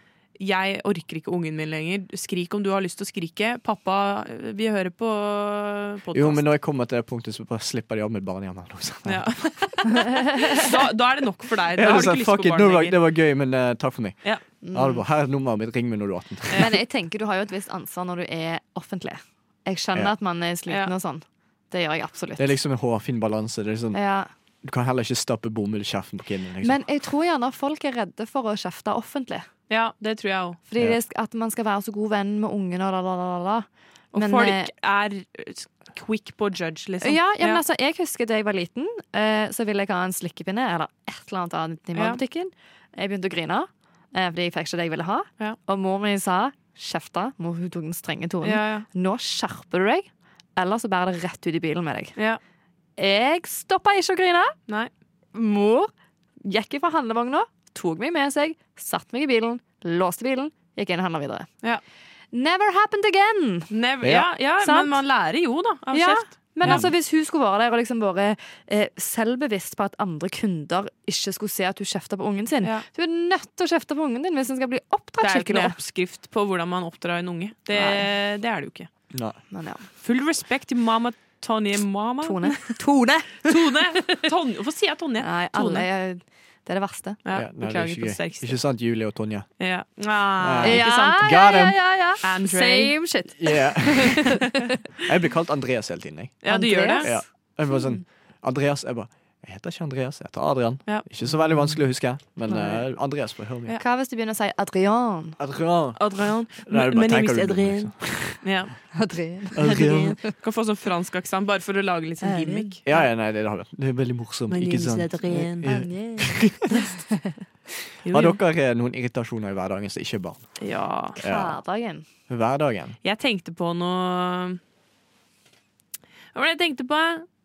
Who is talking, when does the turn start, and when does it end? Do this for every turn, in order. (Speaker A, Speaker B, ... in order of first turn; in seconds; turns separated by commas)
Speaker A: 0.4-6.4, Speaker B: 6.1-9.3, Speaker A: 9.1-13.0, Speaker C: 9.9-10.6, Speaker B: 11.7-16.7, Speaker C: 14.6-15.0, Speaker C: 16.5-22.5, Speaker B: 22.4-24.0, Speaker C: 23.9-24.3, Speaker B: 24.6-26.8, Speaker C: 26.6-29.5, Speaker A: 29.7-30.6, Speaker C: 30.7-34.7, Speaker A: 34.1-37.6, Speaker C: 37.0-52.2, Speaker A: 48.4-48.9, Speaker C: 53.0-54.5, Speaker C: 55.3-55.9, Speaker C: 56.4-61.5, Speaker C: 62.3-63.7, Speaker A: 63.7-66.9, Speaker C: 64.6-65.0, Speaker C: 65.9-75.8, Speaker B: 66.6-66.9, Speaker A: 75.2-78.9, Speaker C: 77.7-78.0, Speaker B: 79.1-79.4, Speaker C: 79.5-79.9, Speaker A: 80.0-82.8, Speaker C: 82.2-84.2, Speaker A: 83.4-85.8, Speaker C: 85.2-87.2, Speaker A: 87.2-88.6, Speaker B: 87.3-89.5, Speaker A: 89.6-91.3, Speaker B: 90.4-91.8, Speaker C: 90.6-94.7, Speaker A: 92.2-93.0, Speaker B: 93.4-94.4, Speaker B: 95.0-96.4, Speaker A: 96.4-97.1, Speaker C: 96.5-97.9, Speaker B: 97.0-103.8, Speaker C: 101.3-101.8, Speaker C: 102.5-102.8, Speaker C: 103.8-105.4, Speaker B: 105.4-106.0, Speaker A: 106.0-108.7, Speaker B: 106.6-108.4, Speaker C: 108.9-110.3, Speaker B: 109.5-110.2, Speaker A: 109.8-113.0, Speaker C: 112.2-112.7, Speaker B: 112.8-116.9, Speaker A: 114.5-115.7, Speaker C: 115.6-117.3, Speaker A: 118.0-118.4, Speaker B: 118.0-120.5, Speaker A: 120.6-121.2, Speaker B: 121.2-121.6, Speaker C: 121.2-122.0, Speaker B: 122.3-123.0, Speaker A: 123.0-124.6, Speaker A: 126.3-127.2